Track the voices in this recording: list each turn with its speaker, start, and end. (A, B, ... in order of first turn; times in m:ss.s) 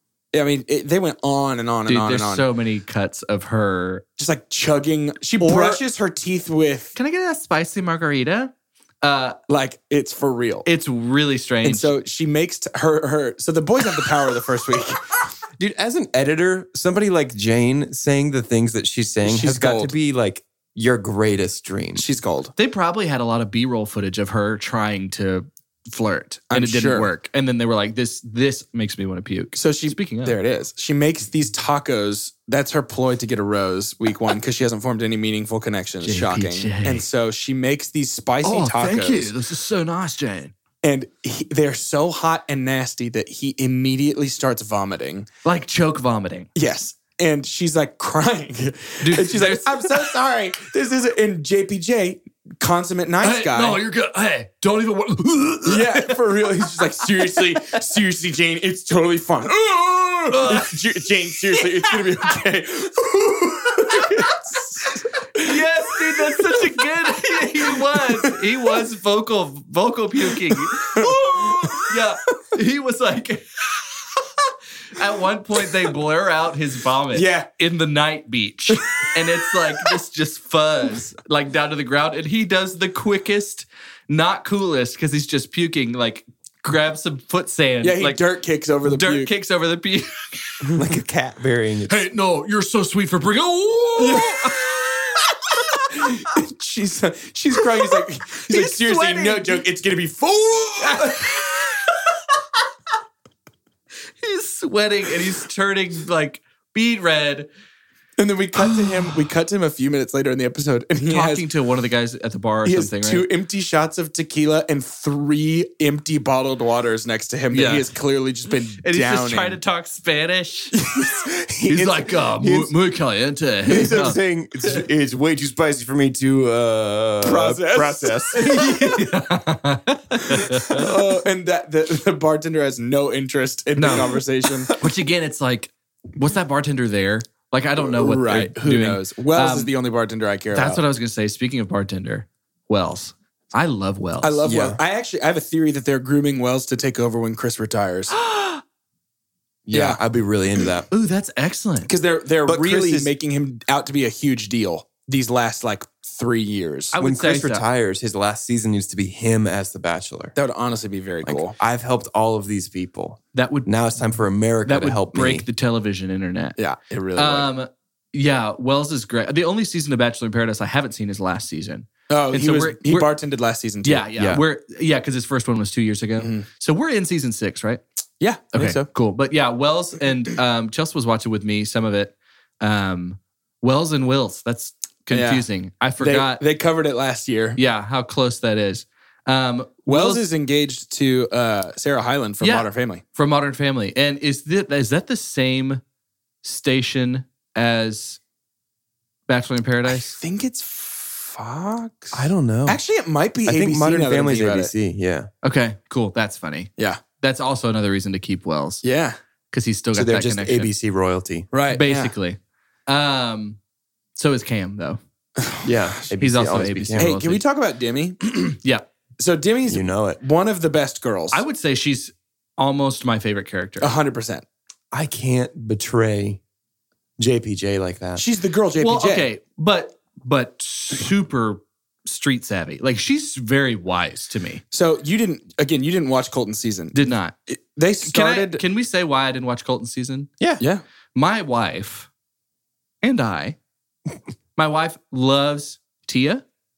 0:00.3-0:02.5 A
0:01.9-0:04.0 B
0:04.2-0:07.0 A
0:05.4-0:05.8 B
0:07.0-0:09.4 B
0:09.5-0:10.7 A
0:10.7-0:11.9 B
0:11.6-0:15.2 A
0:15.6-0:22.1 C
0:19.2-0:19.9 A
0:22.0-0:22.5 A
0:22.6-0:30.4 B
0:26.5-0:27.1 A
0:29.5-0:39.3 A
0:36.0-0:37.0 B
0:38.4-0:40.5 B
0:40.8-0:45.3 A
0:45.4-0:46.5 B
0:46.6-0:53.8 A
0:49.0-0:50.1 B
0:53.2-0:57.8 B
0:55.7-1:05.6 A
1:00.3-1:02.4 B
1:03.7-1:14.2 B
1:06.2-1:06.9 A
1:07.6-1:08.4 A
1:10.6-1:11.9 A
1:14.9-1:28.2 B
1:17.1-1:17.5 A
1:18.7-1:19.2 A
1:27.8-1:29.3 A
1:28.8-1:30.7 B
1:30.7-1:32.0 C
1:31.9-1:36.0 B
1:34.0-1:34.8 A
1:35.9-1:41.6 A
1:38.5-1:39.6 B
1:40.8-1:42.1 B
1:44.2-1:47.5 B
1:48.2-1:51.4 A
1:48.6-1:49.2 B
1:51.1-1:53.3 B
1:52.6-1:59.6 A
1:57.5-1:57.9 B
1:58.8-2:00.8 B
2:00.8-2:01.2 A
2:01.1-2:02.7 C
2:01.7-2:04.2 B
2:03.7-2:09.0 C
2:07.2-2:08.7 A
2:08.4-2:10.9 B
2:10.7-2:14.7 A
2:13.8-2:14.2 B
2:14.7-2:19.7 B
2:17.8-2:20.8 A
2:20.5-2:24.4 B
2:24.2-2:28.2 A
2:24.4-2:24.8 C
2:28.2-2:28.6 B
2:29.7-2:30.9 C
2:29.7-2:30.0 A
2:30.9-2:31.9 B
2:31.9-2:37.0 A
2:32.4-2:33.1 C
2:36.9-2:37.6 B
2:37.0-2:40.4 C
2:40.4-2:41.6 A
2:41.2-2:45.5 C
2:43.3-2:43.7 B
2:44.6-2:46.6 B
2:46.6-2:47.5 A
2:47.2-2:53.1 B
2:52.1-2:54.1 A
2:53.8-2:57.8 B
2:54.2-2:54.4 C
2:56.2-2:56.5 A
2:58.2-2:58.9 A
2:58.5-3:06.4 B
3:05.1-3:05.5 A
3:06.0-3:07.6 A
3:07.6-3:10.2 B
3:09.9-3:13.0 A
3:12.4-3:15.8 B
3:16.4-3:18.2 B
3:19.3-3:20.2 B
3:19.9-3:24.7 A
3:22.1-3:22.8 C
3:23.4-3:25.3 C
3:25.4-3:28.8 B
3:26.8-3:27.0 A
3:28.8-3:29.2 A
3:29.5-3:30.7 B
3:29.9-3:31.5 C
3:31.5-3:32.1 A
3:31.7-3:32.4 B
3:32.9-3:33.6 B
3:34.2-3:35.0 B
3:35.4-3:35.7 A
3:35.6-3:37.1 C
3:36.2-3:37.4 B
3:37.0-3:38.5 A
3:38.5-3:38.9 B
3:39.2-3:41.4 A
3:39.7-3:40.2 C
3:41.3-3:43.9 B
3:43.8-3:44.4 A
3:44.9-3:46.4 C
3:47.2-3:48.2 C
3:48.2-3:49.3 A
3:48.8-3:54.6 B
3:54.7-3:58.6 A
3:56.9-3:57.4 B
3:58.0-4:00.3 B
4:01.2-4:02.1 B
4:03.0-4:03.6 B
4:04.6-4:06.4 B